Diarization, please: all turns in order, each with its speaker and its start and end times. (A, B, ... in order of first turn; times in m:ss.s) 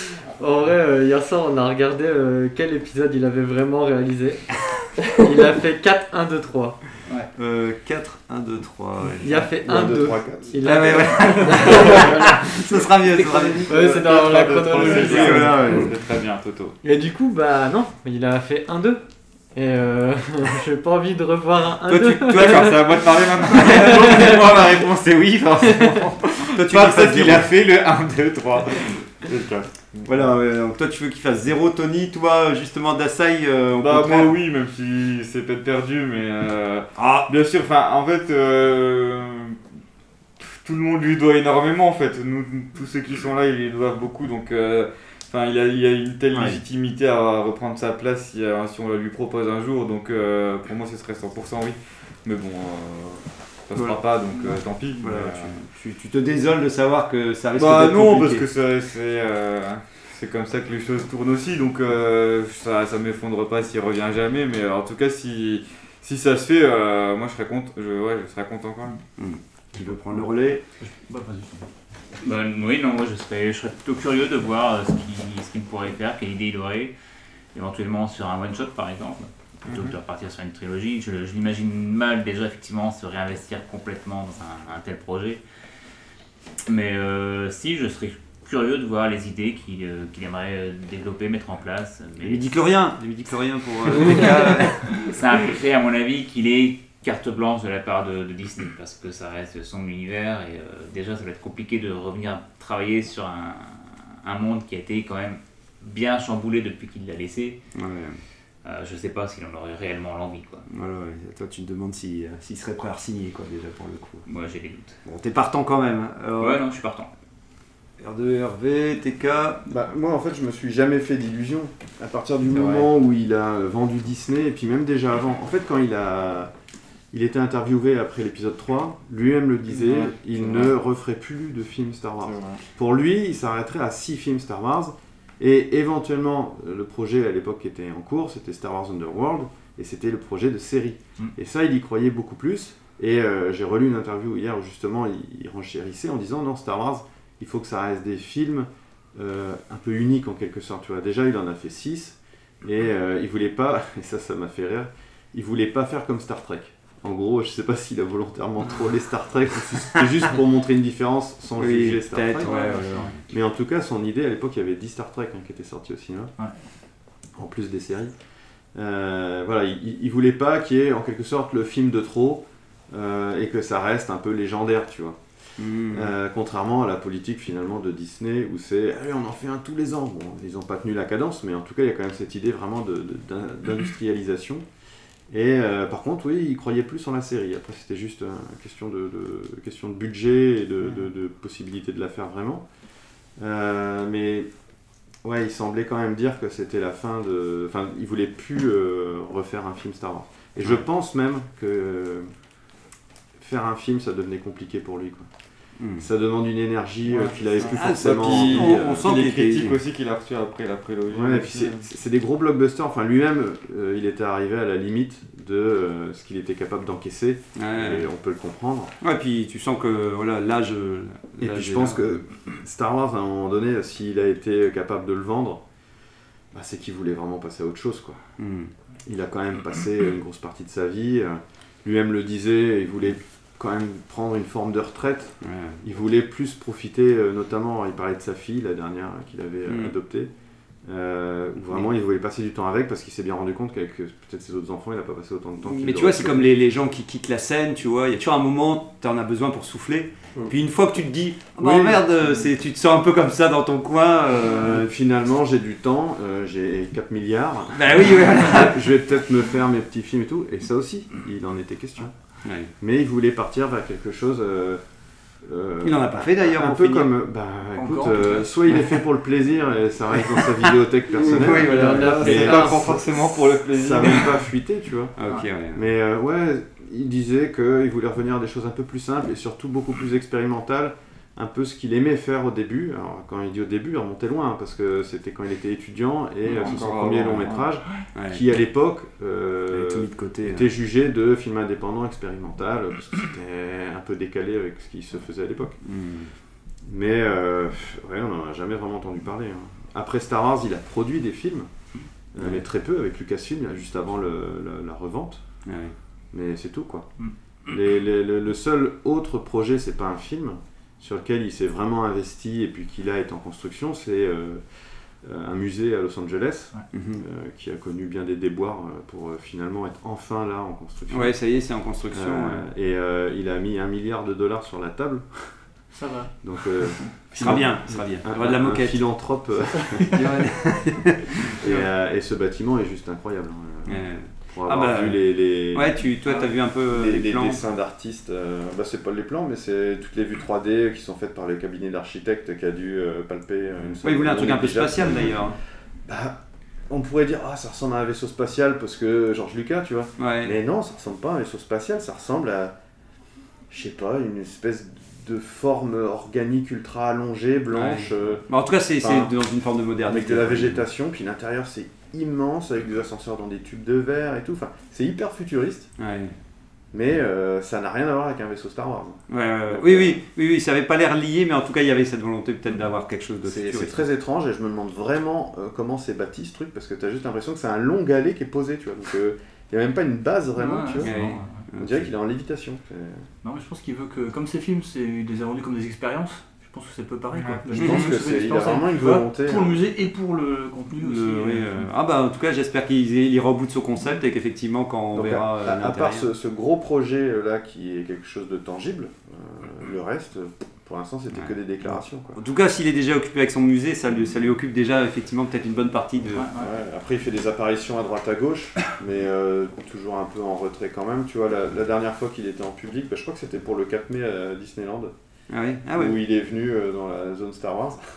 0:00.4-0:04.4 A
0:05.1-0:06.8 A
0:07.4-0:09.5 B
0:09.2-0:12.4 A
0:09.6-0:11.1 C
0:10.6-0:14.2 B
0:13.5-0:15.8 A
0:13.7-0:16.8 D
0:14.8-0:15.9 B
0:16.8-0:19.0 A
0:19.5-0:22.9 A
0:21.9-0:23.0 B
0:22.3-0:30.3 D
0:23.8-0:24.3 A
0:26.5-0:27.5 B
0:30.0-0:34.4 B
0:33.8-0:39.6 D
0:37.0-0:37.3 B
0:40.4-0:55.5 D
0:46.3-0:46.6 B
0:55.0-0:58.4 B
0:57.5-1:09.0 D
1:09.2-1:10.6 B
1:10.8-1:11.7 E
1:12.2-1:16.9 F
1:17.5-1:25.4 F
1:19.6-1:20.0 D
1:26.7-1:32.5 F
1:32.2-1:35.0 B
1:34.9-1:47.6 F
1:47.7-1:48.2 B
1:48.6-1:50.6 F
1:50.7-1:54.2 B
1:54.2-1:55.0 F
1:55.0-1:56.6 B
1:56.4-1:57.1 F
1:58.0-1:59.6 B
1:59.7-2:06.5 C
2:02.5-2:02.9 B
2:07.1-2:42.5 C
2:41.6-2:43.2 B
2:42.4-2:42.8 E
2:43.3-2:46.3 C
2:47.4-2:48.1 C
2:48.7-2:55.2 C
2:55.6-2:56.1 B
2:55.9-3:04.6 C
3:05.3-3:12.6 C
3:13.4-3:14.5 C
3:15.2-3:22.3 C
3:23.4-3:25.3 C
3:25.8-3:26.0 B
3:26.0-3:29.1 C
3:27.1-3:31.8 D
3:27.6-3:29.8 B
3:31.1-3:38.9 C
3:37.6-3:38.0 B
3:39.0-3:42.0 B
3:41.4-3:45.6 C
3:46.5-3:48.2 C
3:48.4-3:48.7 B
3:49.0-4:00.3 C
3:55.4-3:55.8 B
3:59.7-3:59.9 B
4:00.8-4:06.5 C
4:05.6-4:14.8 B
4:11.6-4:12.2 C
4:14.6-4:22.1 C
4:17.7-4:18.8 B
4:22.4-4:22.7 B
4:22.8-4:24.8 C
4:25.4-4:33.0 C
4:25.8-4:27.1 B
4:27.7-4:28.6 E
4:31.2-4:32.5 B
4:31.5-4:33.0 A
4:32.1-4:34.4 D
4:33.6-4:35.2 C
4:35.2-4:35.8 B
4:35.7-4:55.8 C
4:46.5-4:47.7 D
4:48.1-4:48.4 B
4:49.7-4:50.7 B
4:55.8-4:56.3 B
4:56.8-5:01.7 C
5:02.3-5:05.4 C
5:05.6-5:05.9 B
5:06.3-5:07.1 C
5:07.7-5:14.6 C
5:15.2-5:21.4 C
5:16.9-5:17.2 B
5:21.1-5:22.6 B
5:22.1-5:25.2 C
5:25.9-5:26.3 E
5:26.4-5:30.2 C
5:27.3-5:29.0 B
5:30.1-5:31.5 B
5:31.5-5:36.0 C
5:33.9-5:35.2 B
5:35.7-5:37.6 B
5:36.2-5:36.6 E
5:36.9-5:45.4 C
5:44.0-5:45.6 B
5:46.0-5:52.7 C
5:50.2-5:50.6 B
5:53.7-5:58.4 C
5:57.7-6:00.8 B
5:59.0-5:59.3 C
6:00.0-6:05.9 C
6:06.0-6:06.3 B
6:06.9-6:10.2 C
6:09.3-6:14.0 B
6:13.4-6:21.1 C
6:20.6-6:21.6 E
6:21.0-6:22.1 B
6:21.8-6:23.2 C
6:23.4-6:31.8 E
6:27.3-6:27.6 D
6:27.7-6:29.8 C
6:27.8-6:28.1 B
6:31.0-6:36.3 B
6:35.1-6:42.4 C
6:41.3-6:46.5 B
6:46.3-6:46.7 E
6:46.6-6:55.1 C
6:55.5-6:56.1 B
6:55.9-6:58.0 C